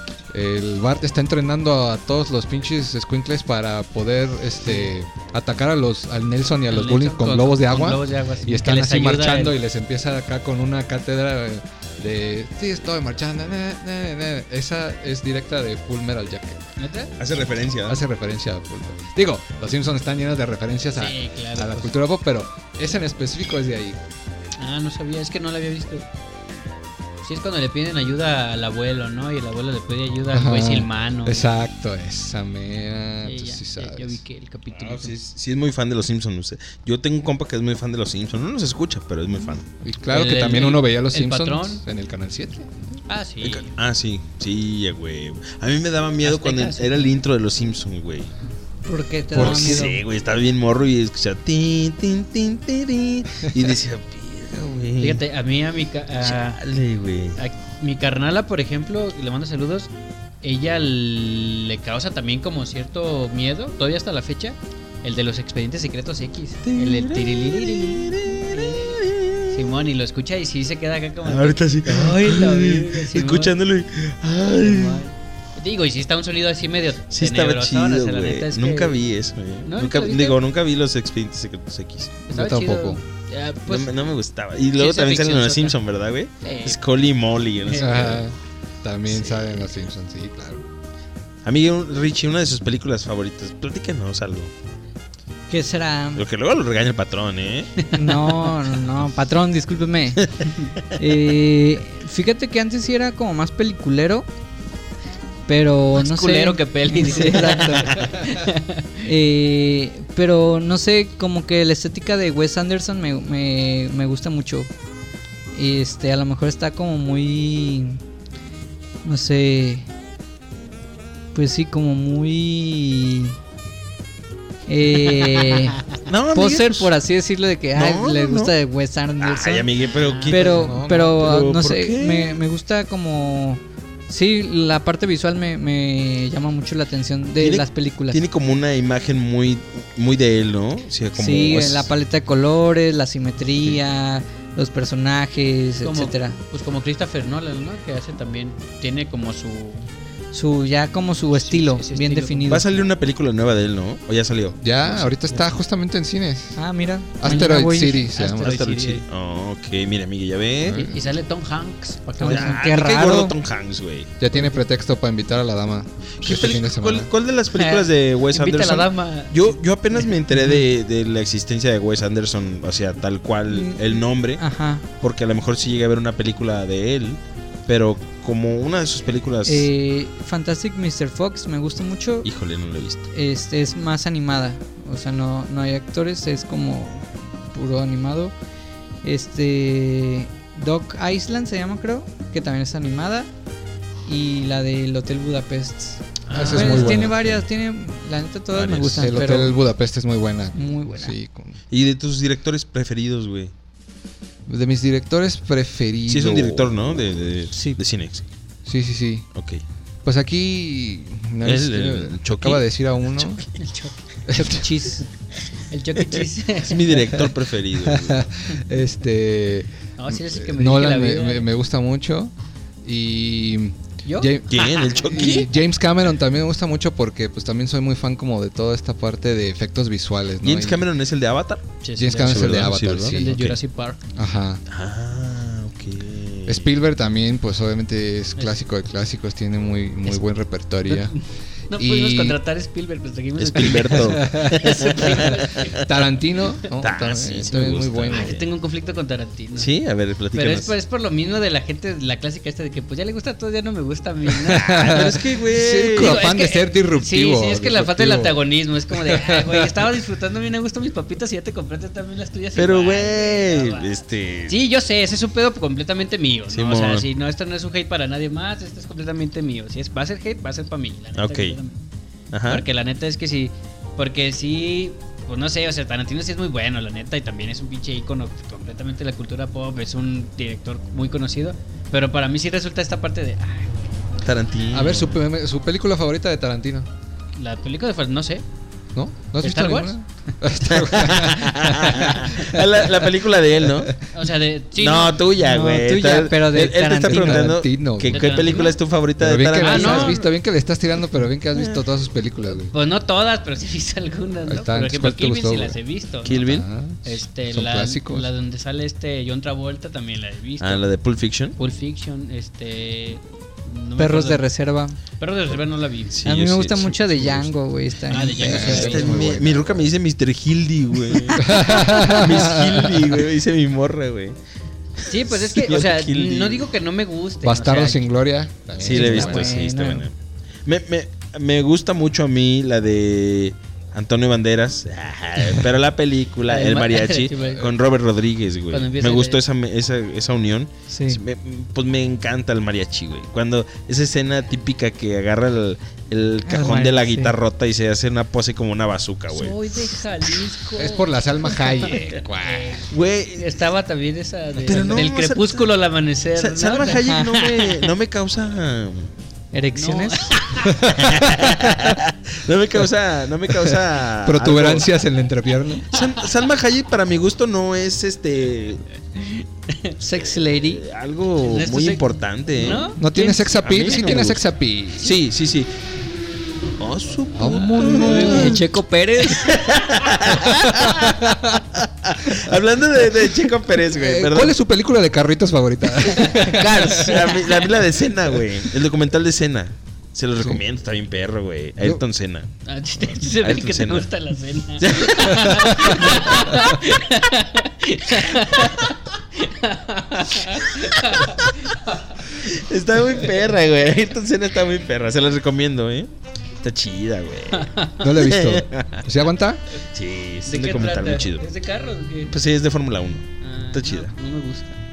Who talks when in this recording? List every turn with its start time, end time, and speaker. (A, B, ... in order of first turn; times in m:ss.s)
0:00.3-0:16.6 A
0:06.7-0:09.6 B
0:16.8-0:17.1 B
0:17.2-0:18.0 C
0:17.9-0:24.0 A
0:21.0-0:21.9 B
0:24.6-0:26.0 B
0:27.2-0:31.5 B
0:30.3-0:34.2 A
0:33.2-0:35.2 B
0:34.7-0:39.6 C
0:39.8-0:43.0 A
0:40.1-0:41.8 B
0:43.1-0:43.7 B
0:43.4-0:48.3 C
0:46.2-0:47.1 B
0:48.9-0:50.0 D
0:49.3-0:49.9 A
0:49.3-0:55.2 C
0:55.0-0:56.6 B
0:56.2-0:57.4 C
0:57.4-0:59.9 B
1:00.4-1:13.5 B
1:06.6-1:09.6 C
1:11.2-1:15.0 C
1:14.6-1:19.0 B
1:17.1-1:22.2 C
1:19.6-1:20.4 B
1:22.3-1:23.9 B
1:22.3-1:23.0 A
1:23.7-1:28.2 C
1:24.7-1:25.8 B
1:26.4-1:26.8 B
1:27.6-1:28.0 B
1:27.7-1:30.6 A
1:29.1-1:29.5 C
1:31.4-1:34.5 C
1:35.5-1:36.2 D
1:36.2-1:37.7 C
1:37.8-1:38.6 B
1:37.9-1:40.3 D
1:40.2-1:40.5 C
1:41.0-1:44.3 D
1:45.5-1:48.2 D
1:46.0-1:49.0 B
1:49.0-1:54.7 D
1:55.5-1:58.0 D
1:59.0-1:59.9 D
2:01.3-2:03.4 D
2:04.7-2:05.8 D
2:06.0-2:06.9 C
2:06.3-2:09.7 D
2:07.8-2:08.5 C
2:09.2-2:12.4 C
2:09.9-2:10.3 B
2:10.3-2:18.2 D
2:10.3-2:11.1 A
2:17.4-2:21.9 C
2:21.1-2:26.4 D
2:25.8-2:29.9 B
2:30.3-2:32.6 D
2:31.3-2:32.8 B
2:32.4-2:35.1 C
2:34.6-2:36.6 A
2:36.6-2:38.1 D
2:37.2-2:38.6 A
2:37.3-2:39.0 B
2:38.4-2:40.9 C
2:40.6-2:41.0 A
2:40.8-2:42.6 B
2:42.2-2:43.3 D
2:42.2-2:44.1 C
2:44.2-2:47.1 A
2:46.2-2:54.4 C
2:47.5-2:49.5 B
2:53.5-2:54.8 D
2:55.0-2:59.7 C
2:59.4-3:02.3 D
3:02.2-3:03.1 C
3:03.1-3:08.3 D
3:09.0-3:13.3 D
3:14.0-3:19.6 D
3:16.2-3:17.4 C
3:16.3-3:17.2 A
3:18.5-3:19.2 C
3:19.0-3:21.6 A
3:20.5-3:21.1 D
3:21.7-3:23.5 C
3:24.5-3:26.7 A
3:26.0-3:28.2 C
3:27.5-3:27.8 D
3:28.6-3:29.3 A
3:29.3-3:29.6 C
3:30.0-3:33.4 A
3:31.4-3:33.4 C
3:33.5-3:34.0 B
3:34.3-3:34.7 A
3:34.3-3:35.1 D
3:35.5-3:37.2 B
3:36.1-3:38.2 C
3:37.8-3:42.3 A
3:40.0-3:41.5 B
3:42.8-3:50.8 A
3:44.0-3:45.4 B
3:44.5-3:45.5 C
3:50.4-3:53.6 C
3:51.8-3:54.0 B
3:52.0-3:53.5 A
3:54.2-3:54.6 A
3:54.7-3:56.7 C
3:56.5-4:02.4 A
4:00.8-4:05.8 B
4:03.4-4:05.8 C
4:03.9-4:04.6 A
4:05.2-4:08.4 A
4:06.8-4:08.4 C
4:08.1-4:09.7 B
4:09.5-4:10.7 C
4:10.3-4:15.2 B
4:14.4-4:18.4 A
4:14.8-4:16.3 C
4:15.9-4:31.8 B
4:18.9-4:19.7 A
4:22.5-4:24.6 C
4:26.5-4:27.0 C
4:31.1-4:31.6 C
4:32.3-4:32.6 C
4:32.5-4:43.9 B
4:44.2-4:45.2 C
4:44.7-4:46.9 A
4:47.4-4:48.4 B
4:48.9-4:52.6 A
4:49.4-4:50.3 B
4:50.6-4:53.9 C
4:54.1-4:55.2 B
4:54.8-5:00.2 C
4:55.4-4:57.6 D
4:57.0-4:58.6 A
4:58.0-4:58.8 B
4:59.2-5:02.7 A
4:59.6-5:00.3 B
5:01.5-5:01.8 C
5:02.7-5:06.4 B
5:04.5-5:08.3 A
5:06.2-5:06.7 C
5:07.0-5:10.8 B
5:10.6-5:11.6 C
5:11.6-5:14.4 B
5:14.0-5:15.0 D
5:15.2-5:16.2 B
5:16.1-5:17.5 C
5:16.2-5:18.9 D
5:18.1-5:19.3 B
5:18.4-5:19.8 A
5:18.4-5:24.4 C
5:21.3-5:23.1 A
5:25.0-5:26.7 C
5:25.1-5:28.1 B
5:27.4-5:29.6 A
5:28.8-5:30.1 C
5:28.8-5:30.1 D
5:30.6-5:50.0 C
5:36.5-5:37.7 B
5:38.7-5:39.4 B
5:40.9-5:41.2 D
5:46.4-5:47.3 D
5:49.3-5:57.9 B
5:50.7-5:52.8 A
5:52.9-5:53.6 C
5:54.6-5:55.7 C
5:56.3-5:59.1 C
5:59.5-6:00.3 D
5:59.7-6:00.9 B
6:00.6-6:02.0 A
6:00.9-6:04.9 C
6:03.5-6:05.9 A
6:05.9-6:08.8 C
6:09.1-6:09.9 B
6:10.0-6:10.8 D
6:10.1-6:13.0 C
6:11.4-6:13.0 B
6:13.0-6:15.2 A
6:13.1-6:13.5 D
6:13.5-6:14.4 C
6:15.0-6:15.7 C
6:16.8-6:18.6 C
6:17.4-6:18.6 A
6:17.9-6:19.6 D
6:19.2-6:24.6 C
6:20.3-6:21.6 A
6:22.2-6:22.5 A
6:23.8-6:27.4 A
6:26.2-6:26.5 B
6:26.2-6:34.1 C
6:26.4-6:27.3 D
6:32.6-6:42.4 B
6:34.8-6:36.6 C
6:35.4-6:35.9 A
6:40.8-6:41.3 C
6:42.3-6:49.0 C
6:47.5-6:48.0 B
6:48.0-6:49.6 A
6:49.9-6:51.4 C
6:50.4-6:52.3 B
6:52.3-6:54.1 C
6:53.4-6:54.8 B